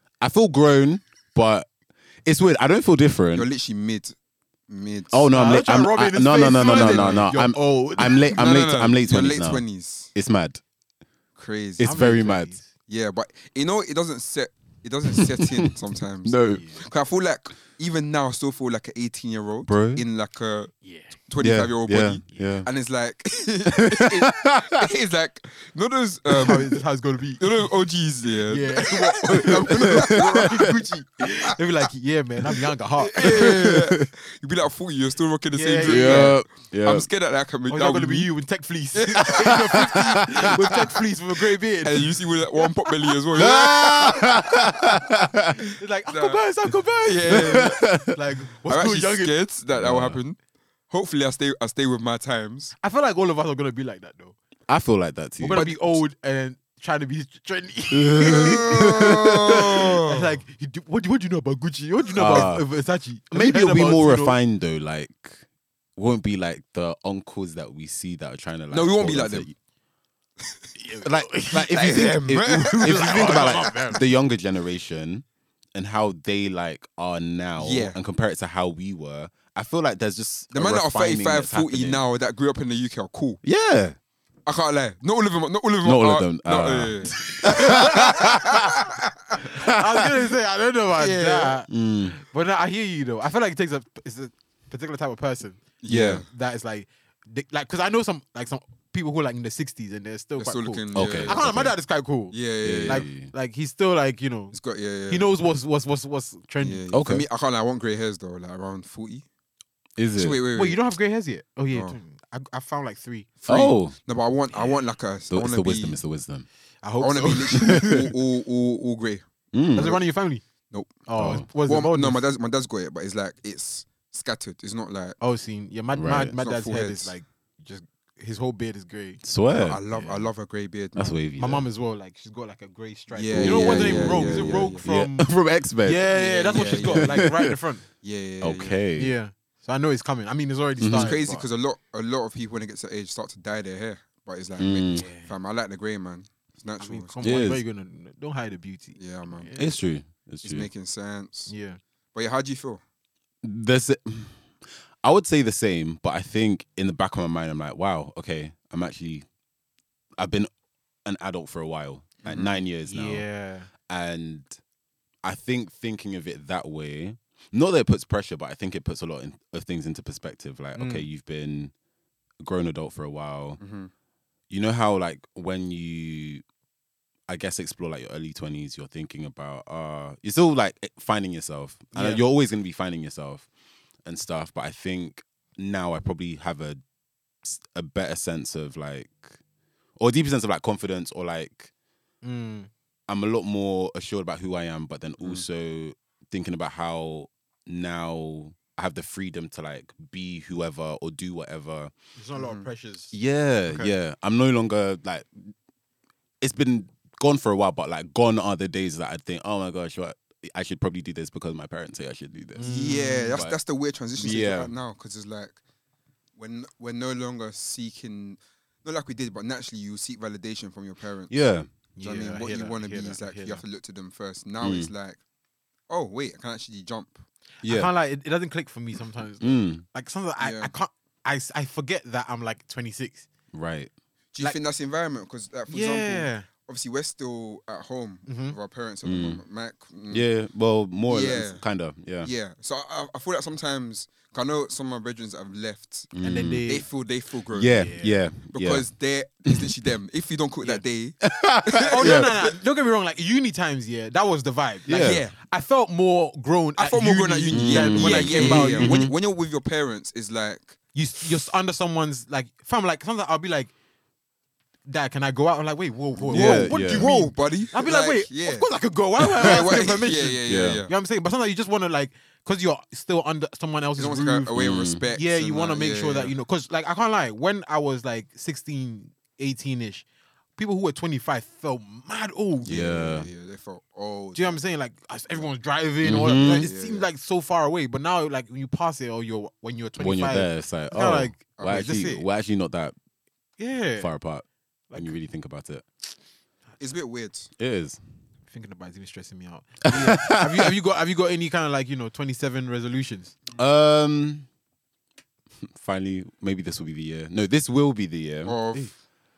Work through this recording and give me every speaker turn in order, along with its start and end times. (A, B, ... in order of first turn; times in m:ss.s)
0:00.2-0:01.7 A
0:02.2-0:03.5 A
0:03.3-0:04.2 B
0:04.7-0:05.3 B
0:05.1-0:09.6 A
0:05.3-0:08.2 C
0:06.5-0:07.3 B
0:08.0-0:10.1 B
0:10.2-0:10.6 A
0:11.4-0:12.0 B
0:11.8-0:12.6 A
0:11.8-0:12.7 C
0:12.9-0:26.7 B
0:15.1-0:15.7 A
0:16.2-0:16.7 A
0:16.5-0:16.8 C
0:19.7-0:20.0 A
0:20.8-0:21.1 C
0:21.4-0:22.7 A
0:22.3-0:22.6 C
0:23.7-0:24.8 A
0:26.4-0:27.6 C
0:27.4-0:30.8 B
0:28.5-0:33.7 C
0:29.6-0:30.6 A
0:33.1-0:38.3 B
0:33.2-0:34.1 A
0:35.5-0:36.4 C
0:35.8-0:37.1 A
0:37.7-0:42.2 C
0:38.9-0:39.9 B
0:39.4-0:40.5 A
0:41.8-0:45.0 B
0:43.3-0:45.6 A
0:45.8-0:49.3 C
0:46.1-0:46.4 B
0:47.0-0:47.8 B
0:47.3-0:48.2 A
0:48.7-0:50.4 B
0:49.8-0:50.2 A
0:50.9-0:52.7 B
0:52.8-0:54.4 C
0:54.7-0:55.6 A
0:55.4-1:04.4 C
0:55.5-0:56.0 B
0:57.9-0:59.9 A
0:58.2-1:00.4 B
1:02.2-1:02.7 A
1:03.3-1:05.4 A
1:06.0-1:09.6 A
1:08.7-1:09.5 B
1:10.4-1:10.7 B
1:10.8-1:11.8 C
1:11.0-1:15.2 A
1:11.5-1:14.0 B
1:12.7-1:14.0 C
1:15.8-1:22.0 A
1:17.6-1:18.0 B
1:20.5-1:23.4 B
1:23.4-1:24.0 A
1:24.5-1:29.4 B
1:25.8-1:28.8 A
1:27.3-1:28.2 C
1:29.4-1:44.6 C
1:29.5-1:30.1 A
1:31.0-1:31.6 B
1:31.7-1:32.2 A
1:35.8-1:36.3 B
1:35.9-1:36.2 A
1:40.4-1:41.5 B
1:40.9-1:41.7 A
1:42.3-1:43.1 B
1:42.6-1:43.3 A
1:44.5-1:45.3 B
1:45.1-1:46.8 C
1:46.6-1:49.3 B
1:46.9-1:47.2 A
1:50.0-1:50.4 A
1:50.2-1:50.8 B
1:50.5-1:53.3 C
1:51.7-1:52.0 B
1:53.4-1:56.0 B
1:53.5-1:54.0 A
1:55.3-1:56.5 A
1:56.8-1:58.0 C
1:57.0-2:00.0 B
1:57.6-1:58.0 A
1:59.5-2:00.0 A
1:59.7-2:00.4 C
2:00.7-2:05.2 B
2:01.0-2:02.2 C
2:01.2-2:01.5 A
2:05.2-2:09.2 C
2:05.9-2:06.4 A
2:06.4-2:07.1 B
2:09.2-2:09.8 A
2:09.5-2:11.2 B
2:09.9-2:10.3 C
2:11.0-2:11.6 A
2:11.4-2:17.8 C
2:13.1-2:14.8 B
2:13.3-2:17.5 A
2:16.1-2:17.3 B
2:18.0-2:18.8 B
2:18.4-2:19.2 A
2:19.0-2:21.5 C
2:20.8-2:21.2 A
2:21.0-2:27.2 B
2:24.6-2:25.1 A
2:25.0-2:25.3 C
2:26.8-2:29.7 C
2:27.2-2:27.6 A
2:29.0-2:29.5 B
2:29.6-2:30.7 A
2:30.4-2:31.5 B
2:31.5-2:31.8 C
2:32.1-2:32.8 B
2:33.4-2:34.5 A
2:35.0-2:39.3 A
2:40.2-2:40.5 A
2:41.0-2:43.2 A
2:42.2-2:42.6 B
2:42.3-2:43.7 C
2:43.8-2:44.6 A
2:45.2-2:51.7 A
2:50.7-2:51.1 C
2:52.4-2:53.6 A
2:53.6-2:53.9 B
2:54.5-2:56.4 A
2:57.3-3:03.5 A
3:01.9-3:02.2 C
3:04.0-3:06.8 A
3:07.4-3:09.4 A
3:10.0-3:11.7 A
3:12.2-3:12.7 C
3:13.1-3:21.9 A
3:15.2-3:15.5 B
3:22.2-3:23.1 C
3:22.4-3:22.7 B
3:23.1-3:25.5 A
3:23.7-3:23.9 C
3:26.4-3:32.7 A
3:32.6-3:33.4 C
3:32.6-3:35.6 B
3:34.2-3:34.7 A
3:36.4-3:41.3 B
3:41.3-3:41.7 A
3:42.0-3:43.6 C
3:42.0-3:45.2 B
3:44.6-3:44.9 A
3:45.9-3:47.2 B
3:47.6-3:47.9 A
3:47.6-3:53.3 C
3:49.4-3:49.8 A
3:50.4-3:50.7 B
3:53.5-3:53.9 A
3:54.3-4:00.3 B
3:55.7-3:56.5 C
3:58.3-3:58.6 C
3:59.0-3:59.4 A
4:00.1-4:02.3 A
4:01.1-4:01.6 B
4:02.2-4:06.1 B
4:06.1-4:06.7 A
4:06.2-4:06.8 C
4:06.7-4:08.0 B
4:07.5-4:08.9 A
4:07.7-4:08.2 C
4:08.5-4:12.4 B
4:09.5-4:09.7 A
4:11.2-4:12.5 A
4:11.8-4:19.0 C
4:14.9-4:15.2 A
4:14.9-4:15.4 B
4:16.8-4:20.8 B
4:17.5-4:19.1 A
4:20.9-4:23.7 C
4:24.9-4:34.5 C
4:26.1-4:28.7 B
4:26.3-4:27.1 A
4:29.3-4:30.9 B
4:30.5-4:30.8 A
4:34.0-4:36.3 B
4:34.5-4:35.0 A
4:35.1-4:40.0 C
4:40.6-4:42.8 C
4:42.6-4:44.6 B
4:42.7-4:43.3 A
4:44.4-4:52.2 C
4:46.0-4:46.7 A
4:46.4-4:47.1 B
4:50.0-4:53.0 A
4:51.6-4:52.2 B
4:53.6-4:54.1 C
4:54.0-4:55.8 A
4:54.9-4:55.2 C
4:56.8-4:57.5 B
4:57.6-4:58.0 A
4:58.5-5:03.4 C
4:59.9-5:00.7 A
5:03.6-5:04.5 A
5:05.6-5:08.9 A
5:08.4-5:08.9 B